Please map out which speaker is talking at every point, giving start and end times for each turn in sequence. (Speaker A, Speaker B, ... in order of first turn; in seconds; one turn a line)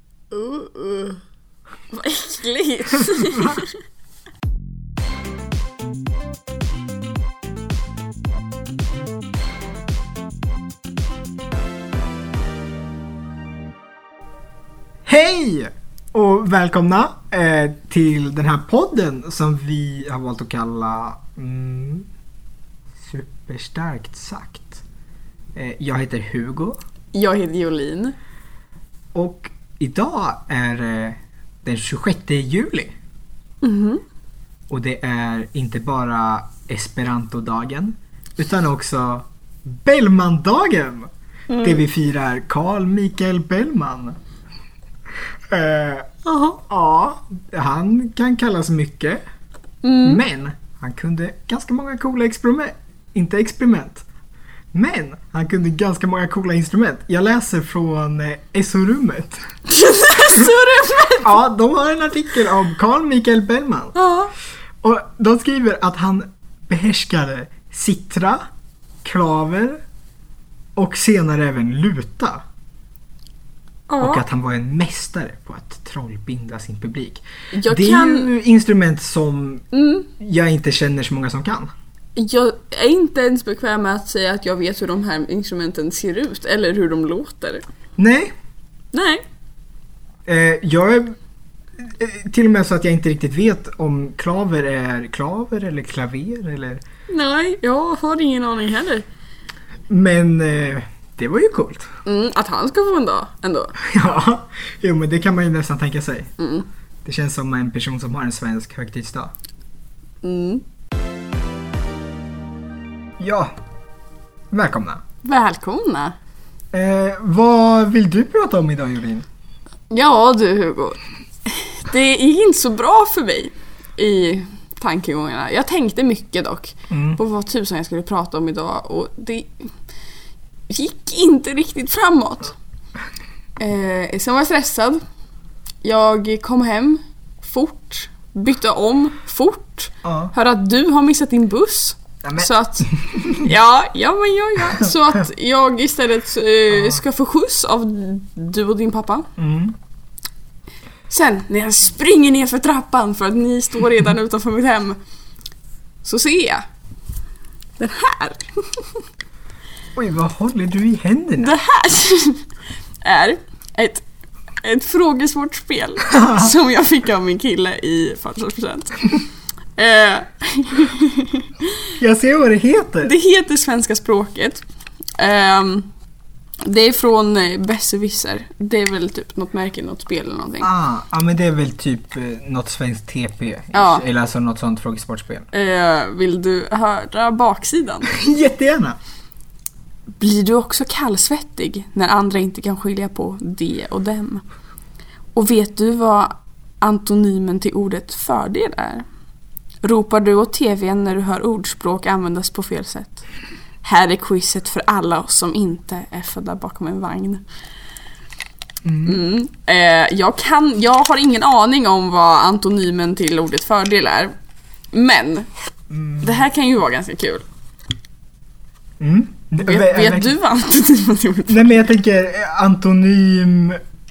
Speaker A: 0.3-1.2
Speaker A: 1.9-3.8
Speaker B: 3.0-3.7
Speaker B: 15.1-22.1
Speaker B: 23.0-24.8
Speaker B: 25.6-26.8
Speaker A: 27.1-28.1
Speaker B: 29.1-33.0
Speaker A: 33.6-34.0
Speaker B: 34.7-44.2
Speaker A: 41.5-41.8
Speaker B: 45.5-49.2
Speaker A: 46.2-46.6
Speaker A: 49.8-50.2
Speaker B: 50.0-54.0
Speaker B: 54.7-59.4
Speaker A: 59.7-61.4
Speaker B: 61.2-64.0
Speaker A: 64.0-64.3
Speaker B: 64.8-68.5
Speaker B: 69.0-69.8
Speaker B: 70.8-72.4
Speaker A: 73.9-74.2
Speaker B: 74.0-79.7
Speaker A: 77.5-78.3
Speaker A: 79.7-80.1
Speaker B: 80.2-81.7
Speaker A: 82.2-87.6
Speaker B: 88.0-88.3
Speaker A: 88.9-89.2
Speaker B: 90.3-91.2
Speaker B: 91.8-96.8
Speaker A: 97.1-99.1
Speaker B: 99.9-101.9
Speaker A: 102.1-103.8
Speaker B: 103.8-106.3
Speaker A: 106.4-106.7
Speaker B: 107.0-109.3
Speaker A: 110.2-110.6
Speaker B: 113.2-113.5
Speaker B: 114.5-115.0
Speaker A: 115.2-116.2
Speaker B: 116.7-119.3
Speaker A: 119.9-129.7
Speaker B: 126.9-127.2
Speaker A: 130.7-132.6
Speaker A: 133.6-135.0
Speaker A: 135.8-149.3
Speaker B: 140.0-140.3
Speaker B: 142.2-143.5
Speaker B: 149.4-149.8
Speaker A: 151.1-155.0
Speaker A: 156.0-156.6
Speaker A: 157.8-159.0
Speaker B: 160.0-161.6
Speaker A: 161.4-162.5
Speaker A: 163.0-164.0
Speaker A: 164.6-169.1
Speaker B: 166.1-166.5
Speaker A: 169.8-171.7
Speaker B: 172.0-173.1
Speaker A: 173.0-174.6
Speaker A: 175.2-175.9
Speaker A: 176.6-180.7
Speaker B: 180.6-185.5
Speaker A: 183.7-184.1
Speaker A: 185.5-188.1
Speaker B: 188.1-189.0
Speaker A: 190.2-194.4
Speaker A: 195.3-199.1
Speaker A: 199.8-203.2
Speaker A: 203.8-207.4
Speaker B: 208.8-209.2
Speaker A: 209.1-214.3
Speaker A: 214.9-215.5
Speaker B: 215.9-216.4
Speaker A: 216.2-217.4
Speaker B: 219.0-220.4
Speaker A: 219.6-221.8
Speaker B: 221.5-223.8